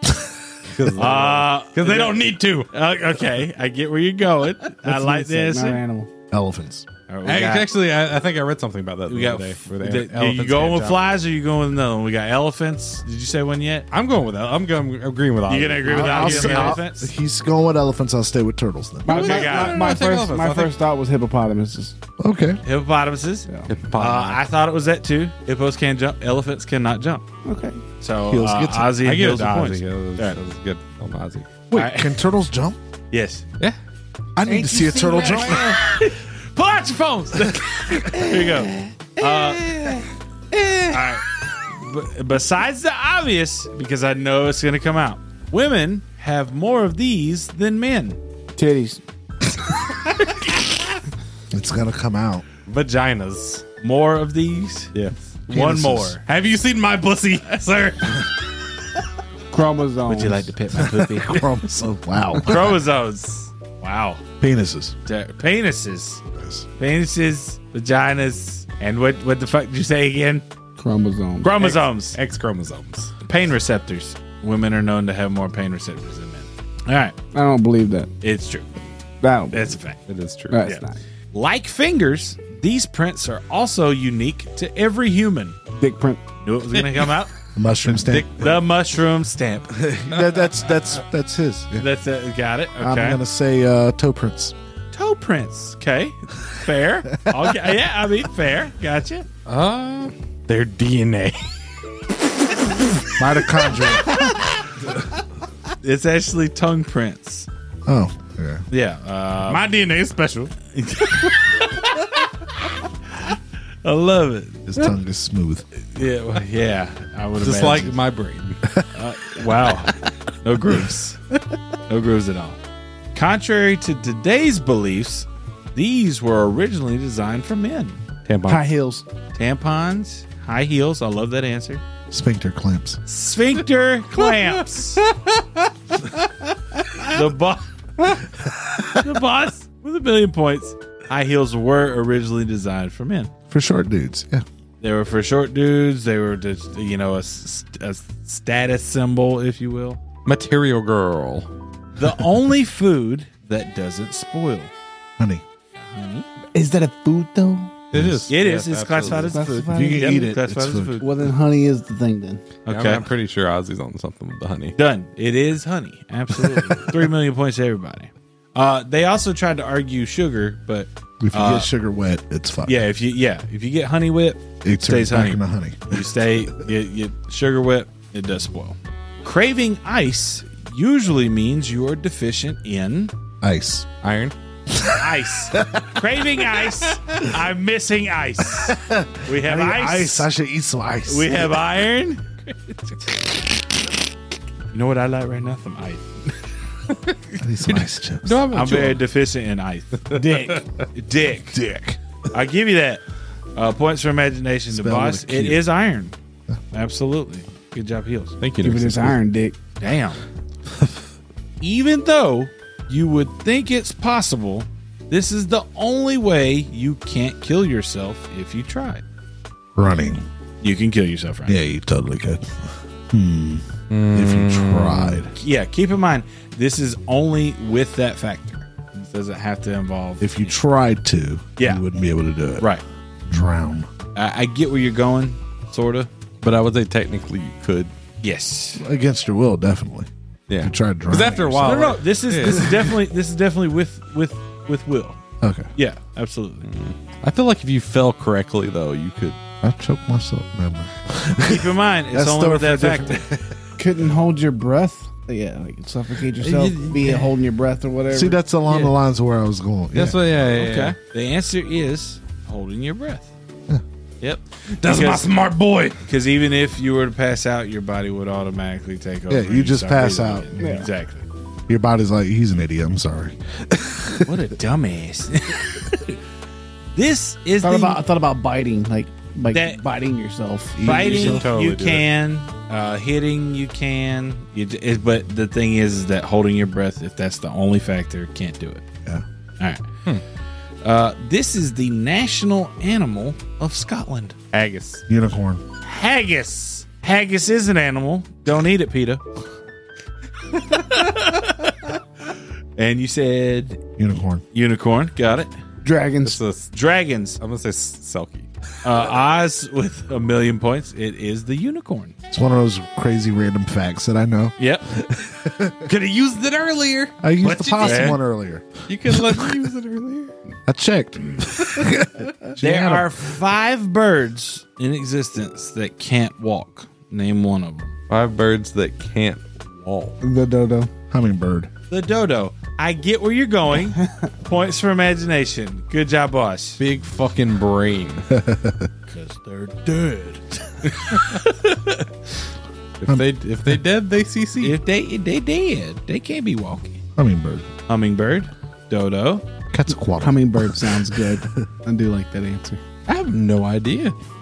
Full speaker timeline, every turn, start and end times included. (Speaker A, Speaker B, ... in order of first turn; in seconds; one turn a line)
Speaker A: 0.7-2.7
Speaker B: 1.0-5.8
Speaker C: 4.8-6.1
Speaker D: 6.3-6.9
Speaker B: 7.1-7.7
Speaker A: 7.2-11.1
Speaker B: 9.1-13.9
Speaker A: 13.9-16.8
Speaker B: 15.5-17.1
Speaker D: 15.8-19.1
Speaker C: 19.1-21.9
Speaker A: 19.1-20.7
Speaker B: 19.1-19.8
Speaker D: 22.2-22.6
Speaker B: 22.6-27.2
Speaker A: 23.7-24.4
Speaker C: 27.4-27.8
Speaker B: 28.0-30.4
Speaker D: 28.3-29.0
Speaker A: 29.0-31.5
Speaker D: 31.7-32.8
Speaker B: 31.7-32.2
Speaker B: 33.1-33.5
Speaker D: 34.4-35.8
Speaker C: 34.4-35.8
Speaker B: 35.2-40.0
Speaker A: 39.3-41.0
Speaker B: 40.9-48.2
Speaker C: 48.6-49.0
Speaker D: 51.5-52.5
Speaker A: 52.7-53.6
Speaker B: 53.8-54.9
Speaker A: 54.9-55.2
Speaker B: 55.5-56.2
Speaker D: 55.5-56.2
Speaker A: 56.2-58.4
Speaker C: 59.5-60.5
Speaker B: 60.1-61.5
Speaker D: 60.7-62.8
Speaker B: 62.4-64.2
Speaker D: 64.4-65.0
Speaker B: 65.1-66.2
Speaker D: 66.3-66.7
Speaker B: 66.8-70.5
Speaker C: 70.8-71.7
Speaker B: 71.4-72.2
Speaker A: 71.6-73.1
Speaker B: 73.2-77.2
Speaker C: 77.3-78.1
Speaker B: 78.2-78.7
Speaker C: 79.2-79.8
Speaker B: 79.5-80.0
Speaker A: 80.1-80.6
Speaker C: 80.5-81.0
Speaker B: 80.6-85.6
Speaker C: 85.7-86.2
Speaker B: 86.4-87.3
Speaker D: 87.6-88.6
Speaker B: 87.9-89.8
Speaker D: 89.7-91.9
Speaker B: 91.8-93.2
Speaker D: 92.8-94.5
Speaker B: 94.9-99.3
Speaker A: 99.5-101.5
Speaker D: 103.2-104.5
Speaker B: 105.8-107.5
Speaker D: 107.9-108.6
Speaker B: 108.7-109.7
Speaker A: 109.5-110.5
Speaker B: 110.7-112.2
Speaker B: 113.1-114.7
Speaker D: 114.7-115.6
Speaker B: 115.8-118.0
Speaker A: 117.4-118.6
Speaker D: 117.6-117.9
Speaker B: 118.9-121.2
Speaker B: 121.9-122.6
Speaker B: 123.2-128.0
Speaker A: 128.3-128.7
Speaker C: 128.5-129.1
Speaker B: 129.3-131.8
Speaker D: 132.1-133.0
Speaker B: 133.1-135.0
Speaker A: 134.2-136.3
Speaker B: 137.0-137.7
Speaker B: 138.9-143.3
Speaker D: 143.5-144.4
Speaker B: 144.8-150.0
Speaker A: 150.3-151.5
Speaker B: 152.0-154.7
Speaker D: 155.2-155.4
Speaker B: 155.8-156.3
Speaker C: 156.5-157.8
Speaker A: 157.9-159.4
Speaker D: 157.9-158.3
Speaker B: 158.3-161.1
Speaker C: 159.1-160.3
Speaker D: 159.7-161.0
Speaker C: 161.0-162.4
Speaker B: 162.7-163.1
Speaker A: 162.7-164.8
Speaker B: 164.8-171.7
Speaker D: 171.2-172.8
Speaker B: 172.7-183.1
Speaker D: 174.6-176.1
Speaker D: 183.4-183.9
Speaker A: 184.0-184.3
Speaker D: 184.7-186.0
Speaker B: 185.0-190.3
Speaker D: 188.6-191.6
Speaker B: 191.1-193.0
Speaker B: 194.7-196.4
Speaker D: 197.4-198.4
Speaker A: 197.7-199.0
Speaker B: 198.5-201.6
Speaker A: 200.1-200.6
Speaker C: 200.1-200.6
Speaker D: 201.3-202.0
Speaker B: 202.3-203.0
Speaker B: 203.6-206.2
Speaker D: 204.7-205.7
Speaker B: 206.7-208.4
Speaker A: 208.4-209.2
Speaker C: 208.6-209.6
Speaker B: 209.8-210.2
Speaker B: 211.6-219.0
Speaker D: 219.8-220.2
Speaker B: 220.6-221.6
Speaker D: 221.5-225.3
Speaker A: 223.9-225.3
Speaker B: 225.3-230.5
Speaker D: 230.2-232.7
Speaker B: 231.6-231.8
Speaker D: 233.3-233.9
Speaker B: 234.2-236.1
Speaker A: 236.4-237.9
Speaker B: 238.2-238.8
Speaker D: 238.8-240.1
Speaker A: 240.5-242.9
Speaker D: 240.6-241.9
Speaker B: 241.6-245.2
Speaker D: 245.4-245.7
Speaker B: 245.8-246.7
Speaker A: 246.7-249.4
Speaker D: 249.6-253.6
Speaker B: 251.4-253.2
Speaker C: 253.8-258.4
Speaker A: 256.4-257.3
Speaker D: 258.1-260.5
Speaker B: 258.7-258.9
Speaker A: 259.9-261.0
Speaker B: 260.6-263.3
Speaker B: 264.2-265.3
Speaker A: 264.8-266.0
Speaker B: 266.1-271.3
Speaker D: 269.3-270.7
Speaker C: 270.6-270.9
Speaker D: 271.7-274.4
Speaker B: 274.2-276.2
Speaker B: 276.9-278.0
Speaker C: 277.6-281.4
Speaker B: 279.5-279.8
Speaker D: 280.8-281.4
Speaker B: 280.8-288.8
Speaker A: 280.9-282.1
Speaker B: 289.6-289.9
Speaker B: 290.8-294.4
Speaker A: 294.5-295.0
Speaker D: 295.1-295.6
Speaker B: 295.8-299.2
Speaker B: 300.7-301.7
Speaker B: 302.8-303.8
Speaker D: 304.0-304.4
Speaker B: 304.5-305.5
Speaker C: 305.8-306.4
Speaker A: 306.2-306.7
Speaker B: 306.7-307.4
Speaker A: 307.4-308.5
Speaker B: 308.8-312.1
Speaker D: 312.3-315.9
Speaker B: 314.6-314.9
Speaker A: 315.9-318.2
Speaker D: 317.2-319.6
Speaker B: 317.4-318.2
Speaker A: 318.9-320.3
Speaker D: 320.7-323.1
Speaker B: 322.6-327.9
Speaker A: 328.1-330.2
Speaker C: 330.2-330.9
Speaker D: 331.1-331.7
Speaker B: 331.9-336.8
Speaker A: 336.8-338.3
Speaker D: 338.3-338.9
Speaker B: 339.1-342.1
Speaker A: 343.0-344.8
Speaker D: 343.1-343.8
Speaker B: 344.6-347.0
Speaker D: 347.2-347.7
Speaker B: 347.9-349.4
Speaker D: 349.7-351.3
Speaker C: 350.2-352.8
Speaker A: 353.1-354.2